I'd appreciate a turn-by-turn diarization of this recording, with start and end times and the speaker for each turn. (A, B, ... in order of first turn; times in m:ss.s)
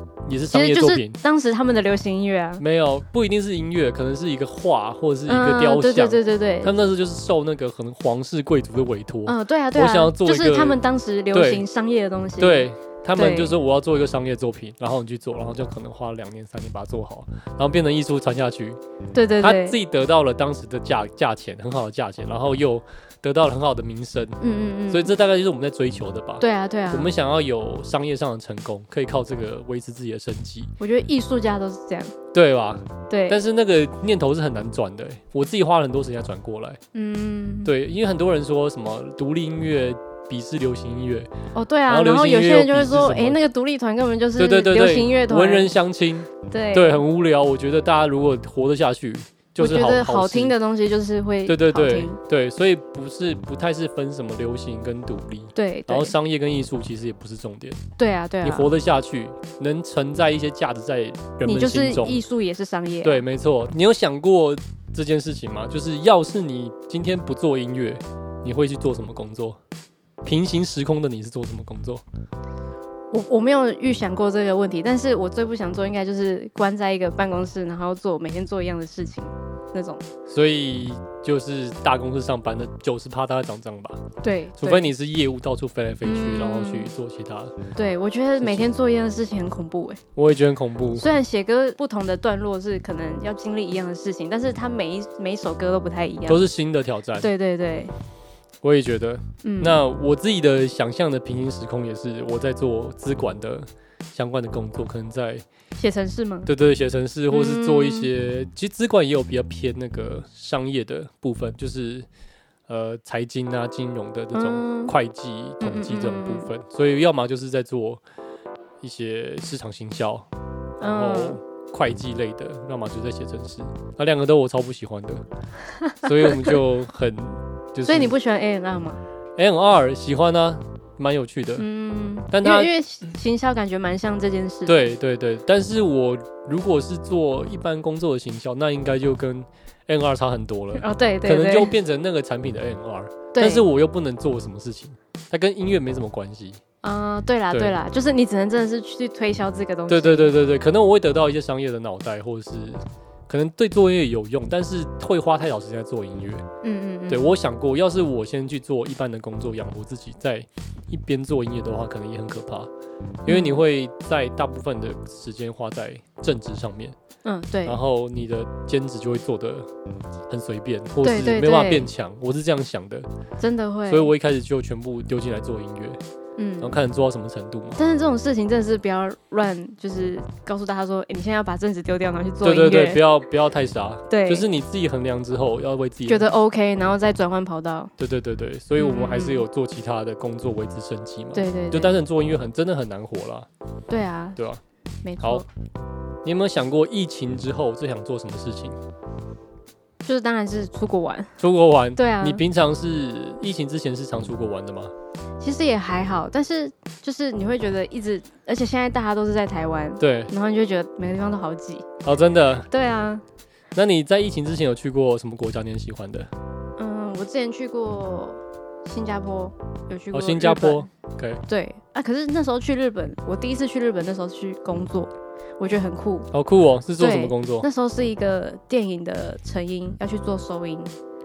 0:00.3-0:01.2 A
0:00.5-0:02.6 B
0:02.6-0:10.8 A
0:05.3-0:06.7 B
0:09.3-0:13.6 B
0:11.3-0:11.6 A
0:12.4-0:18.8 A
0:19.1-0:19.8 B
0:19.4-0:30.7 A
0:24.4-0:25.2 B
0:26.4-0:27.1 B
0:30.8-0:32.1 B
0:32.3-0:36.8 A
0:33.1-0:33.4 B
0:36.9-0:37.7 B
0:37.6-0:41.3 A
0:41.5-0:45.7 B
0:41.9-0:43.4 A
0:44.4-0:50.6 A
0:46.5-0:47.0 B
0:49.6-0:52.2 B
0:51.4-0:57.8 A
0:55.6-0:56.2 B
0:58.0-0:58.7 B
0:58.4-1:02.2 A
1:01.4-1:03.2 B
1:03.0-1:09.6 A
1:10.2-1:12.0 A
1:13.1-1:20.0 B
1:20.3-1:24.0 A
1:24.2-1:24.9 B
1:24.6-1:27.6 A
1:26.0-1:26.9 B
1:27.8-1:30.0 B
1:28.4-1:28.7 A
1:30.2-1:31.1 A
1:30.9-1:36.5 B
1:36.3-1:37.3 A
1:37.2-1:37.9 B
1:38.6-1:45.4 A
1:39.4-1:39.8 B
1:45.8-1:46.5 B
1:46.5-1:52.1 A
1:47.3-1:48.1 B
1:52.7-1:58.0 A
1:54.3-1:55.0 B
1:55.6-1:56.5 B
1:58.8-2:00.3 A
2:00.8-2:05.2 A
2:00.8-2:01.4 B
2:05.8-2:06.6 B
2:06.0-2:08.2 A
2:07.8-2:09.0 B
2:09.4-2:11.7 A
2:11.6-2:14.8 B
2:12.3-2:12.7 A
2:14.7-2:26.6 A
2:20.8-2:21.8 B
2:23.3-2:23.6 B
2:26.8-2:30.4 B
2:29.9-2:36.4 A
2:36.6-2:37.3 B
2:37.1-2:42.7 A
2:43.3-2:43.6 B
2:43.3-2:47.0 A
2:47.2-2:47.8 B
2:47.6-2:49.7 A
2:50.3-2:53.1 A
2:51.0-2:51.9 B
2:53.4-2:54.1 B
2:53.9-2:56.0 A
2:56.4-2:56.8 B
2:56.6-2:57.8 A
2:57.8-3:03.0 B
3:02.4-3:06.3 A
3:04.1-3:04.5 B
3:06.1-3:07.9 B
3:08.0-3:13.5 A
3:08.8-3:09.5 B
3:11.3-3:12.0 B
3:13.9-3:14.4 B
3:14.4-3:14.6 A
3:15.0-3:15.5 B
3:16.2-3:18.8 A
3:20.0-3:21.4 B
3:21.4-3:24.9 A
3:22.0-3:22.4 B
3:25.4-3:31.9 B
3:30.0-3:30.3 A
3:32.0-3:32.7 A
3:32.7-3:33.2 B
3:33.8-3:36.3 A
3:36.8-3:40.9 B
3:40.1-3:41.4 A
3:41.5-3:46.3 B
3:46.3-3:47.7 A
3:47.0-3:50.9 B